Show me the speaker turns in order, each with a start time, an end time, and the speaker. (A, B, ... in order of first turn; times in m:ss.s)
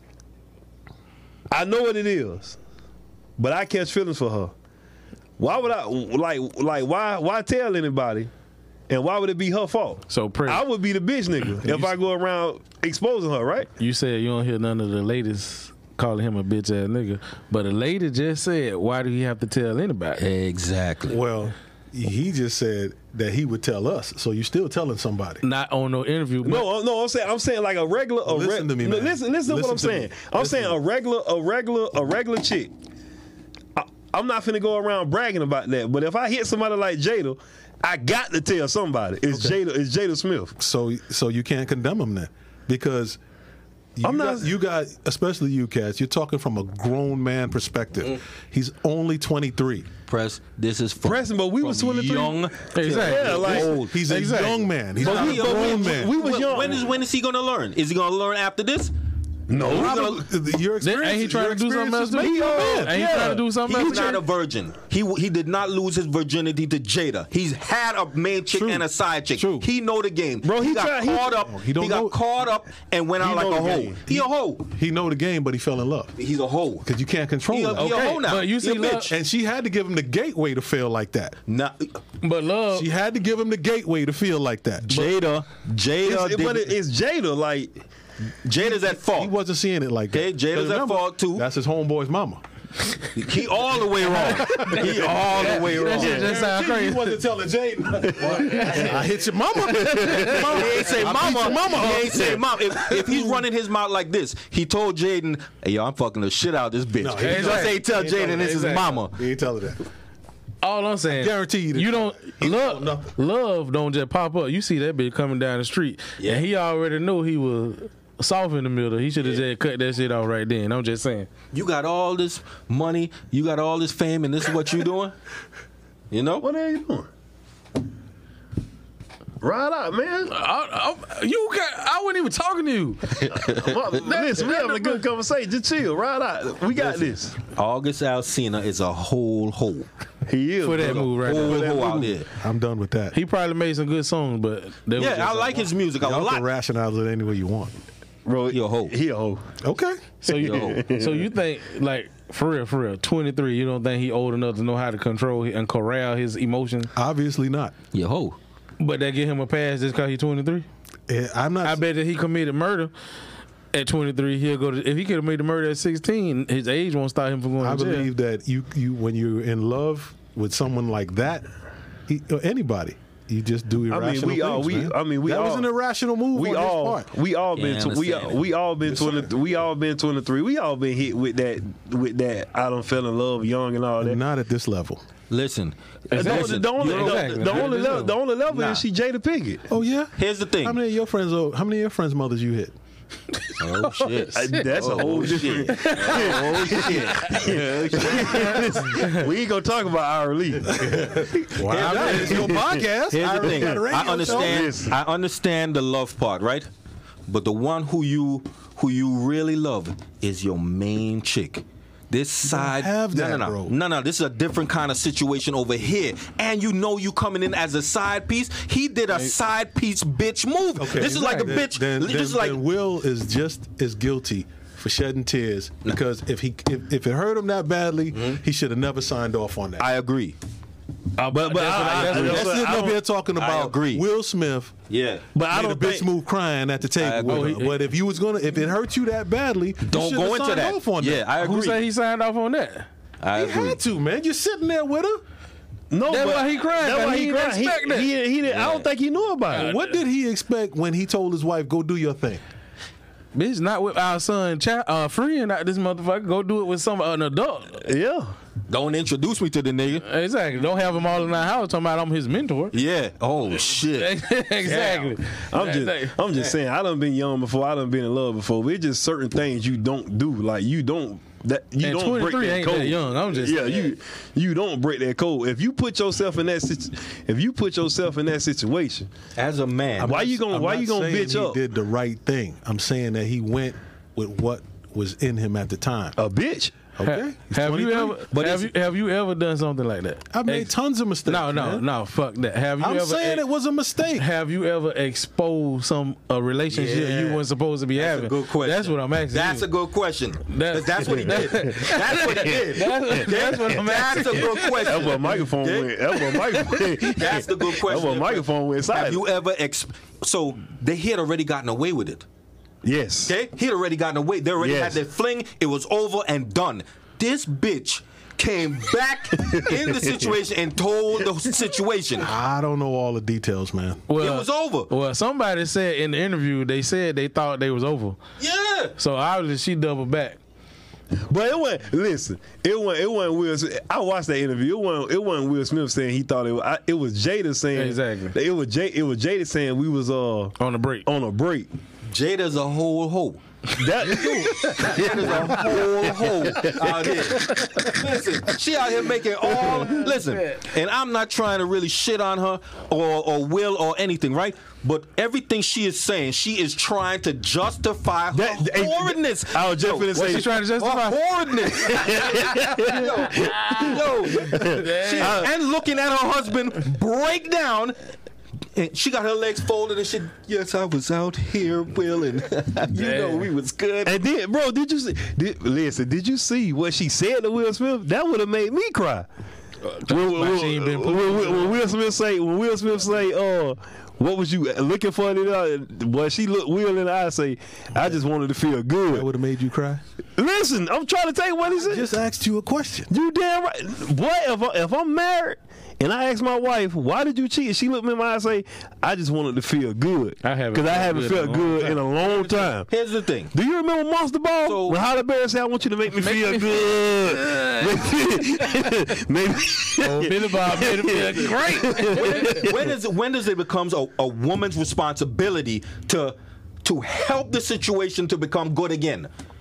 0:01.5-0:02.6 A
0:03.4-0:04.5 A
0:05.4-0:08.3 A
0:08.9-0:13.7 A
0:10.1-0:10.6 B
0:11.6-0:11.9 B
0:13.8-0:20.2 B
0:20.2-0:21.2 C
0:21.1-0:25.4 D
0:25.4-0:26.6 B
0:26.4-0:32.7 A
0:28.2-0:30.8 D
0:33.8-0:40.5 A
0:39.3-0:39.6 D
0:40.6-0:43.2 D
0:44.0-0:49.9 D
0:44.0-0:44.5 A
0:50.1-0:53.9 C
0:51.0-0:53.8 A
0:52.7-0:54.6 B
0:53.8-0:56.2 D
0:55.0-0:56.9 A
0:55.0-0:58.9 C
0:59.5-1:00.1 A
0:59.5-1:03.2 D
0:59.5-1:00.2 C
1:00.8-1:04.2 B
1:02.1-1:04.0 A
1:03.6-1:14.6 C
1:08.5-1:09.7 D
1:10.4-1:11.4 A
1:11.4-1:12.2 D
1:13.2-1:14.0 A
1:14.1-1:16.1 D
1:16.2-1:16.8 C
1:16.8-1:17.9 D
1:17.5-1:19.1 C
1:17.8-1:19.1 B
1:19.0-1:21.4 D
1:21.5-1:22.0 C
1:22.2-1:22.9 B
1:22.7-1:24.9 D
1:24.9-1:26.7 C
1:26.0-1:27.8 A
1:28.4-1:29.3 C
1:28.7-1:32.4 D
1:30.1-1:31.4 C
1:33.1-1:36.3 C
1:34.3-1:35.1 D
1:34.4-1:37.2 B
1:35.9-1:43.4 D
1:38.2-1:39.0 B
1:38.2-1:38.6 A
1:39.8-1:40.5 A
1:39.8-1:40.9 B
1:40.3-1:49.1 C
1:47.0-1:49.8 D
1:47.2-1:48.9 B
1:50.6-2:01.3 B
1:51.1-1:53.1 D
1:56.2-1:56.5 C
2:01.5-2:05.1 C
2:06.1-2:06.4 C
2:06.4-2:07.1 A
2:09.4-2:10.3 A
2:10.3-2:15.0 B
2:13.3-2:13.8 C
2:13.5-2:17.4 A
2:16.7-2:19.9 C
2:20.3-2:22.1 A
2:20.6-2:21.7 B
2:20.8-2:22.3 C
2:22.3-2:23.2 D
2:23.1-2:25.7 B
2:25.0-2:26.4 C
2:26.0-2:27.7 D
2:28.2-2:29.4 A
2:28.5-2:28.9 C
2:29.6-2:30.0 D
2:30.2-2:36.9 B
2:30.2-2:31.3 A
2:30.3-2:30.8 C
2:36.9-2:37.7 D
2:37.9-2:38.4 C
2:38.8-2:40.7 B
2:41.1-2:41.8 D
2:41.6-2:42.9 B
2:43.7-2:48.1 B
2:47.6-2:51.5 D
2:52.1-2:57.1 D
2:53.9-2:55.7 A
2:56.3-3:04.2 A
2:57.5-2:58.4 C
2:58.9-2:59.3 D
3:04.0-3:05.0 D
3:05.3-3:08.8 C
3:06.1-3:08.2 B
3:06.1-3:09.6 A
3:09.7-3:12.7 D
3:10.2-3:10.8 C
3:13.4-3:14.6 B
3:13.6-3:18.5 C
3:14.3-3:21.0 A
3:15.7-3:17.4 B
3:18.3-3:19.3 B
3:20.7-3:24.7 D
3:21.6-3:26.7 C
3:21.7-3:22.4 B
3:21.8-3:25.0 A
3:27.3-3:42.6 C
3:32.4-3:33.7 D
3:40.8-3:49.9 D
3:48.1-3:48.4 C
3:49.8-3:50.4 C
3:51.2-3:53.0 A
3:51.3-3:52.5 B
3:51.6-3:54.0 C
3:52.0-3:54.7 D
3:54.9-3:55.2 C
3:55.3-3:56.1 A
3:55.5-4:01.2 D
3:57.0-3:57.6 C
3:57.3-3:57.8 B
3:59.8-4:01.8 C
4:01.4-4:02.9 B
4:03.2-4:03.8 C
4:03.3-4:05.2 D
4:05.9-4:09.7 A
4:06.1-4:08.1 B
4:08.4-4:08.9 C
4:09.5-4:12.4 D
4:09.5-4:09.9 B
4:13.3-4:17.8 B
4:17.8-4:18.3 A
4:18.7-4:20.0 C
4:20.0-4:22.7 B
4:22.7-4:25.2 C
4:23.9-4:26.2 B
4:25.5-4:39.1 A
4:31.8-4:33.9 B
4:39.4-4:40.2 C
4:40.0-4:46.2 D
4:40.0-4:41.6 A
4:46.2-4:46.7 A
4:47.0-4:48.2 D
4:47.0-4:50.7 B
4:48.3-4:48.7 C
4:50.3-4:51.8 D
4:51.2-4:53.4 B
4:52.8-4:54.2 D
4:54.2-4:59.7 B
4:56.7-4:57.4 C
4:57.9-5:12.2 C
5:00.4-5:05.3 B
5:01.1-5:09.2 A
5:06.4-5:07.0 B
5:12.8-5:13.3 A
5:13.2-5:22.3 C
5:14.6-5:15.0 A
5:19.4-5:20.2 A
5:22.2-5:24.0 D
5:24.1-5:28.2 B
5:24.2-5:24.9 C
5:28.4-5:28.9 C
5:29.0-5:30.4 B
5:31.3-5:41.7 A
5:37.7-5:38.3 B
5:40.6-5:41.1 B
5:42.1-5:43.4 C
5:43.7-5:47.1 A
5:44.0-6:08.0 C
5:44.1-5:45.8 B
5:46.4-5:48.0 B
5:49.4-5:50.1 A
5:49.4-5:50.6 B
5:58.3-6:00.5 A
6:00.1-6:01.2 B
6:01.7-6:05.5 A
6:02.3-6:05.5 B
6:08.7-6:14.2 C
6:12.9-6:13.5 B
6:14.0-6:19.3 A
6:19.8-6:21.8 B
6:20.1-6:29.3 A
6:29.1-6:30.0 D
6:30.4-6:32.1 A
6:31.8-6:33.1 D
6:33.1-6:42.9 A
6:40.4-6:42.0 B
6:42.3-6:43.5 C
6:43.5-6:52.8 A
6:44.6-6:45.0 C
6:46.2-6:49.0 B
6:50.0-6:52.7 B
6:52.1-6:59.3 C